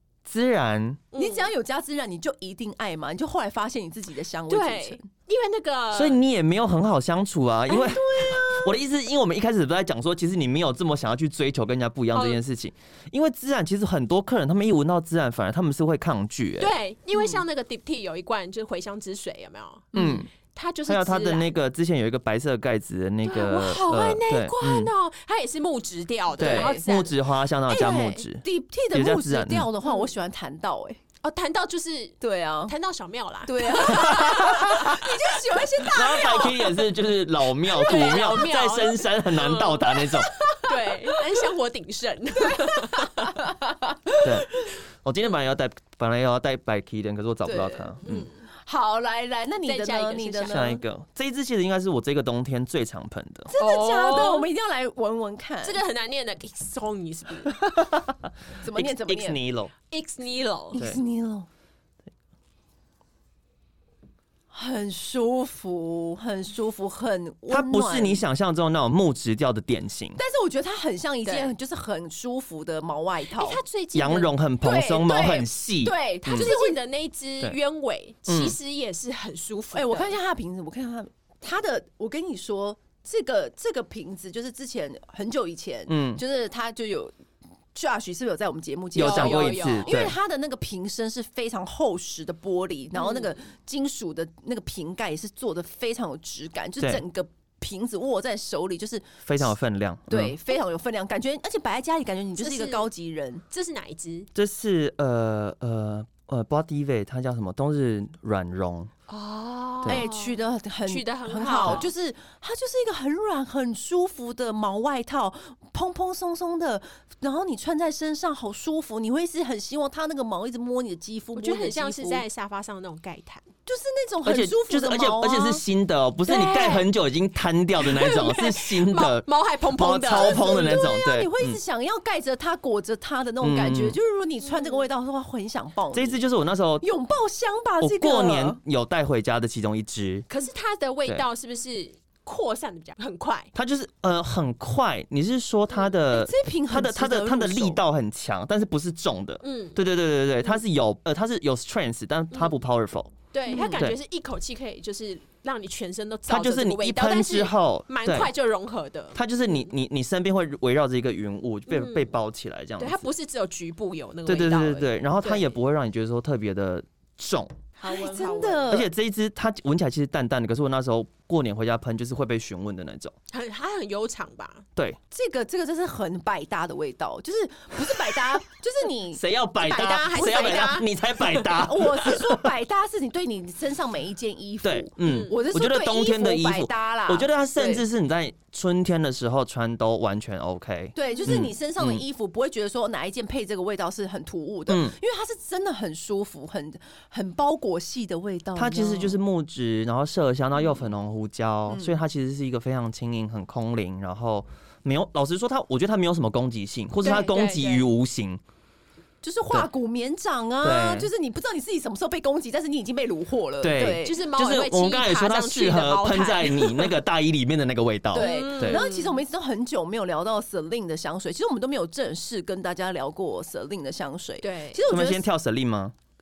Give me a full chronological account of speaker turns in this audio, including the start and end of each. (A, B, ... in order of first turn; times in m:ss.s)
0:00.2-0:01.0 A
0:01.1-0:01.5 B
0:01.2-0:05.1 C
0:04.5-0:06.2 B
0:05.9-0:16.8 A
0:07.7-0:08.7 C
0:12.1-0:12.4 B
0:16.6-0:21.5 B
0:19.9-0:20.2 C
0:19.9-0:20.3 A
0:20.9-0:24.9 A
0:23.2-0:27.2 B
0:26.4-0:26.8 C
0:26.4-0:29.7 A
0:27.7-0:31.0 C
0:29.8-0:30.1 B
0:31.2-0:35.1 B
0:32.2-0:32.7 C
0:33.4-0:36.9 C
0:34.0-0:34.9 A
0:35.8-0:40.3 A
0:37.7-0:38.4 C
0:37.8-0:43.4 B
0:40.4-0:41.2 C
0:42.4-0:44.4 C
0:44.2-0:48.3 A
0:47.4-0:48.0 C
0:48.0-0:48.3 B
0:48.6-0:50.8 C
0:49.6-0:50.6 B
0:50.4-0:53.5 A
0:53.5-0:55.8 C
0:53.6-0:54.5 B
0:55.6-0:57.6 B
0:58.6-0:59.4 C
0:58.7-0:59.7 A
0:59.9-1:00.8 B
1:00.7-1:01.5 C
1:04.5-1:08.2 C
1:07.5-1:10.2 A
1:10.2-1:13.6 C
1:11.2-1:11.5 B
1:13.4-1:14.3 B
1:13.9-1:16.5 A
1:14.6-1:16.8 C
1:16.2-1:20.1 B
1:18.3-1:18.6 A
1:19.7-1:27.1 C
1:25.9-1:26.2 A
1:27.7-1:39.5 C
1:28.9-1:30.1 A
1:29.0-1:30.0 B
1:32.9-1:33.3 B
1:39.2-1:40.4 A
1:40.1-1:43.4 C
1:42.4-1:42.9 B
1:43.5-1:44.3 B
1:44.4-1:48.9 A
1:49.1-1:51.9 B
1:49.9-2:02.2 C
2:01.4-2:03.4 B
2:03.6-2:05.6 C
2:04.2-2:11.6 A
2:06.2-2:06.9 C
2:07.8-2:10.9 B
2:10.1-2:16.2 C
2:13.4-2:14.0 A
2:14.5-2:14.8 B
2:15.9-2:16.8 A
2:16.8-2:18.6 C
2:17.8-2:20.2 A
2:20.3-2:23.5 B
2:23.6-2:33.1 A
2:26.1-2:27.8 C
2:29.4-2:29.8 B
2:33.3-2:39.2 B
2:33.5-2:33.8 C
2:36.3-2:38.3 A
2:39.1-2:43.1 A
2:41.7-2:42.1 B
2:42.8-2:45.5 B
2:44.2-2:47.6 A
2:47.8-2:48.8 B
2:47.8-2:48.9 C
2:48.7-2:53.1 A
2:53.3-2:54.6 B
2:55.1-3:07.8 C
2:59.1-3:02.5 A
2:59.6-3:00.9 B
3:04.6-3:12.0 A
3:05.0-3:05.4 B
3:10.9-3:19.2 C
3:14.7-3:15.0 A
3:18.6-3:28.4 A
3:21.7-3:22.0 C
3:27.0-3:27.9 B
3:27.0-3:27.3 C
3:29.2-3:34.2 C
3:30.6-3:31.1 A
3:33.6-3:38.8 A
3:34.0-3:36.9 B
3:38.1-3:39.2 B
3:38.1-3:45.2 C
3:44.4-3:44.9 B
3:44.9-3:45.9 A